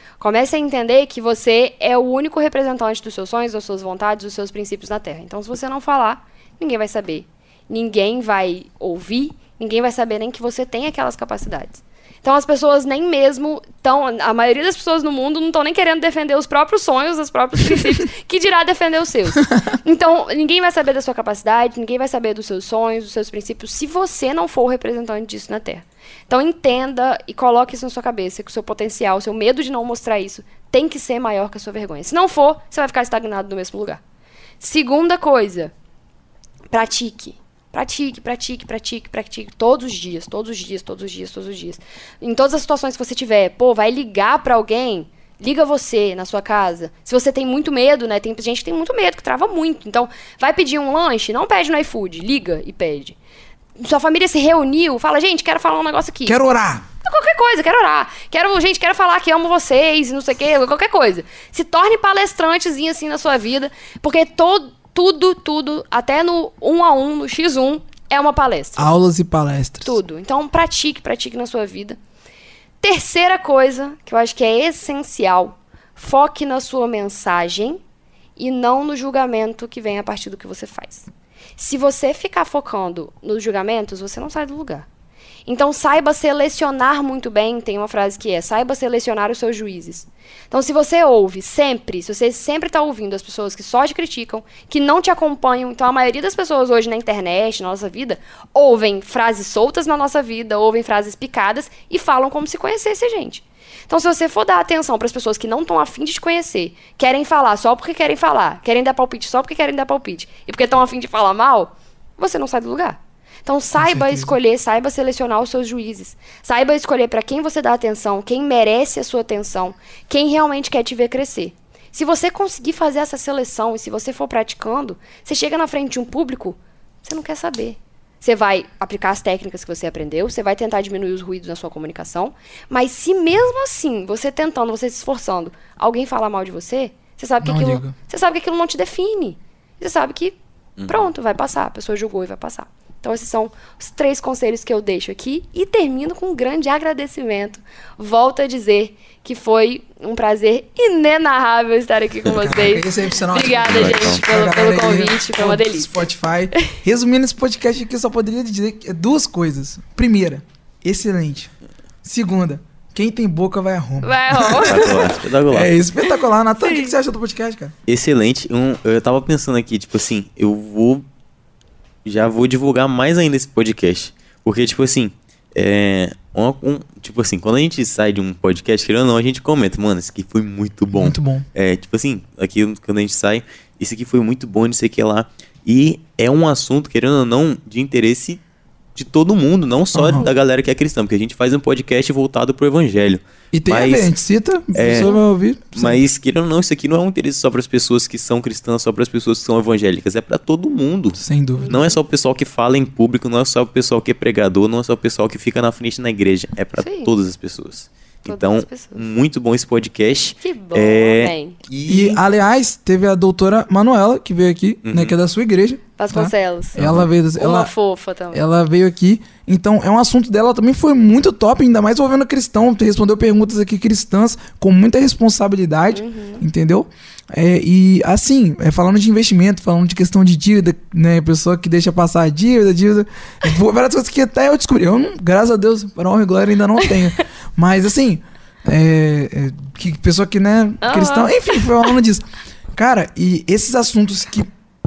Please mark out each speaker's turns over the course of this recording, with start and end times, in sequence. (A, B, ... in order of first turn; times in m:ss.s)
0:00.2-0:34.0 A
0:34.6-0:35.7 A
0:36.7-0:53.2 A
0:53.8-0:56.4 A
0:56.3-0:56.8 B
0:57.0-1:08.9 A
1:08.8-1:09.9 B
1:09.8-1:12.0 A
1:12.8-1:17.8 A
1:18.4-1:24.9 A
1:25.5-2:20.4 A
1:53.8-1:54.3 B
2:17.4-2:18.0 B
2:20.8-2:21.1 C
2:20.9-2:36.0 A
2:32.3-2:41.5 B
2:33.6-2:34.2 C
2:42.0-2:47.8 B
2:44.0-2:45.1 A
2:44.6-2:45.7 C
2:46.1-2:46.9 A
2:47.9-2:51.0 C
2:52.0-3:08.4 C
3:00.9-3:01.4 B
3:09.0-3:14.1 C
3:09.9-3:10.3 B
3:13.5-3:16.0 B
3:14.7-3:15.1 C
3:15.8-3:32.2 C
3:21.2-3:21.8 B
3:21.6-3:22.0 A
3:26.8-3:27.1 A
3:28.3-3:29.1 A
3:30.4-3:31.6 A
3:31.9-3:37.7 B
3:34.8-3:35.2 C
3:36.0-3:36.8 A
3:36.8-3:37.1 C
3:37.4-3:38.4 A
3:38.3-4:04.5 B
3:45.9-3:46.4 A
4:00.8-4:01.9 A